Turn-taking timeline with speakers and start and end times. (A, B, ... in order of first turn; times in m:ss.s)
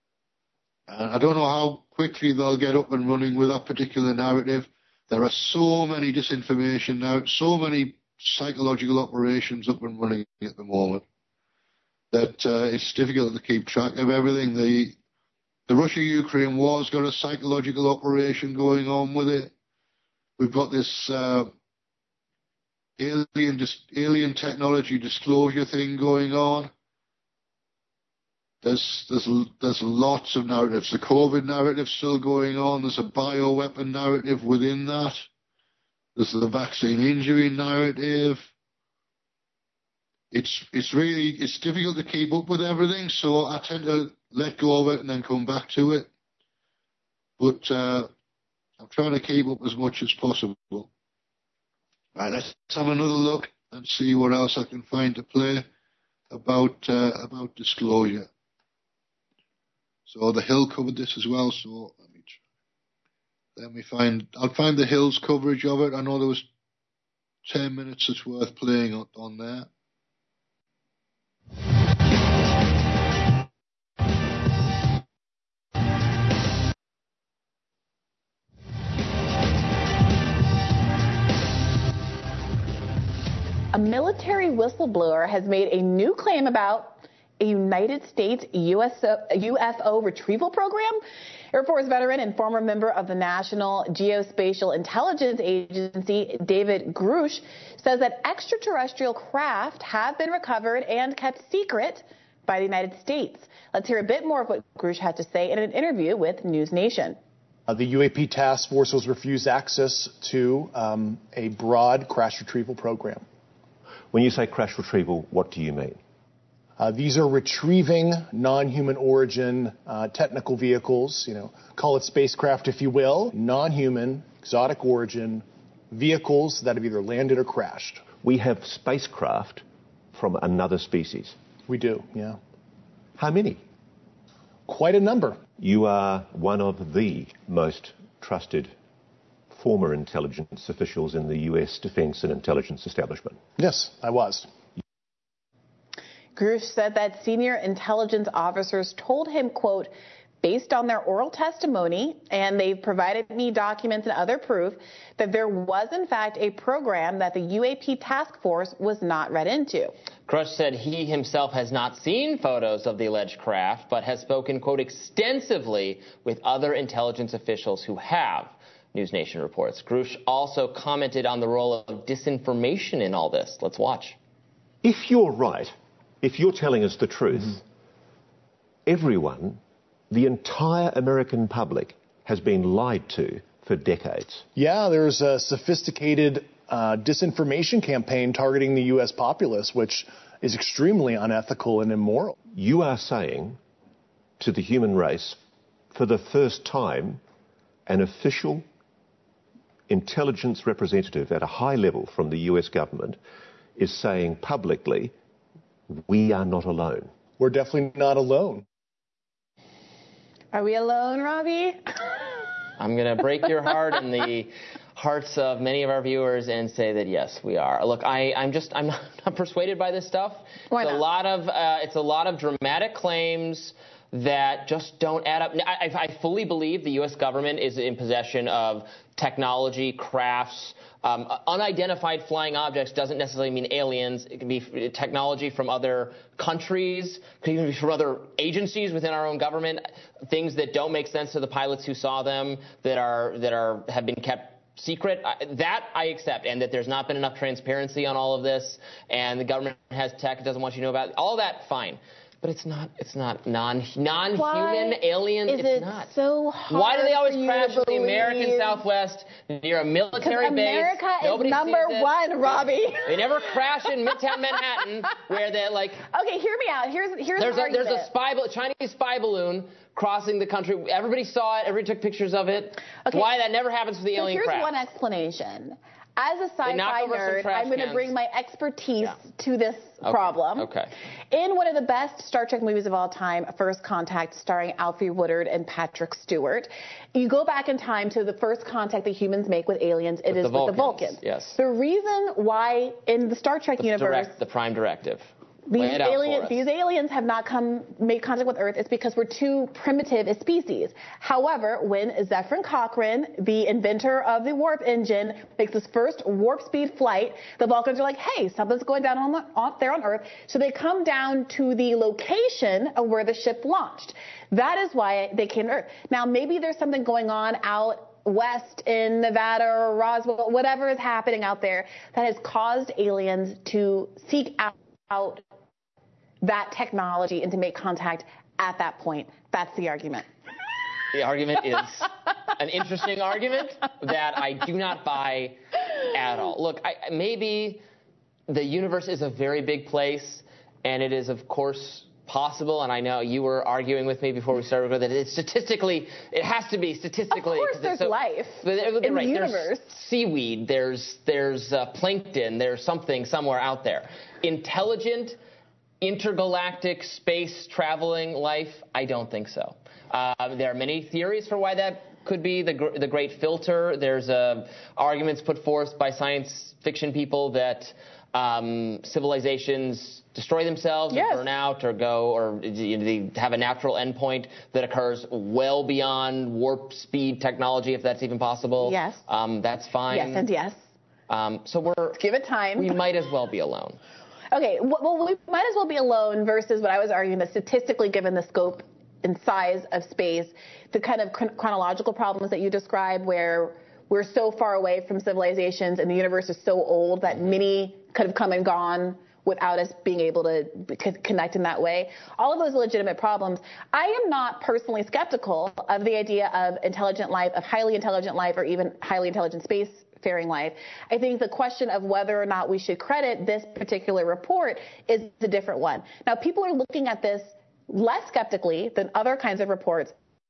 0:00.9-0:11.0 A
0:12.1-0:15.0 A
0:15.7-0:19.5 A
0:20.4-0:21.5 A
0:23.0-0:26.7 A
0:28.6-0:35.2 A
0:36.2-0:38.5 A
0:40.3-0:46.1 A
0:47.4-0:48.1 A
0:48.8-0:50.9 A
0:52.2-0:55.6 A
0:56.3-0:58.3 A
1:00.1-1:02.4 A
1:03.6-1:06.5 A
1:07.4-1:09.7 A
1:23.7-1:31.0 B
1:31.5-1:47.2 B
1:47.7-1:53.2 C
1:54.1-1:56.0 D
1:56.8-2:08.1 C
2:08.1-2:11.4 D
2:11.7-2:12.4 C
2:13.2-2:13.6 D
2:14.7-2:15.4 C
2:15.6-2:18.7 D
2:19.5-2:23.4 D
2:23.6-2:24.5 C
2:26.4-2:39.9 B
2:40.3-2:54.2 E
2:54.8-2:57.6 D
2:58.9-3:04.5 D
3:04.6-3:12.4 C
3:12.5-3:13.6 D
3:14.4-3:15.4 D
3:15.9-3:17.2 D
3:17.9-3:18.7 D
3:19.9-3:23.2 D
3:23.8-3:25.1 D
3:25.9-3:27.1 D
3:27.4-3:28.6 C
3:30.5-3:32.3 B
3:32.8-4:16.1 E
3:40.7-3:41.0 B
4:14.3-4:18.8 B
4:16.7-4:22.1 E
4:20.2-4:25.4 B
4:23.1-4:26.0 E
4:26.0-4:28.1 B
4:27.4-4:34.8 E
4:32.9-4:33.4 B
4:34.1-4:40.7 B
4:36.6-4:38.1 E
4:40.0-4:40.9 E
4:41.3-4:54.4 B
4:50.3-4:51.6 E
4:53.8-4:56.6 E
4:55.7-5:25.4 B
5:26.4-5:30.3 B
5:31.1-5:35.6 E
5:36.1-5:37.8 E
5:38.5-5:55.4 E
5:47.3-5:50.0 B
5:56.0-6:20.5 E
6:11.1-6:11.5 B
6:18.8-6:19.2 B
6:20.1-6:20.9 B
6:21.3-6:22.2 E
6:22.1-6:23.0 B
6:22.8-6:24.0 E
6:24.5-7:00.2 B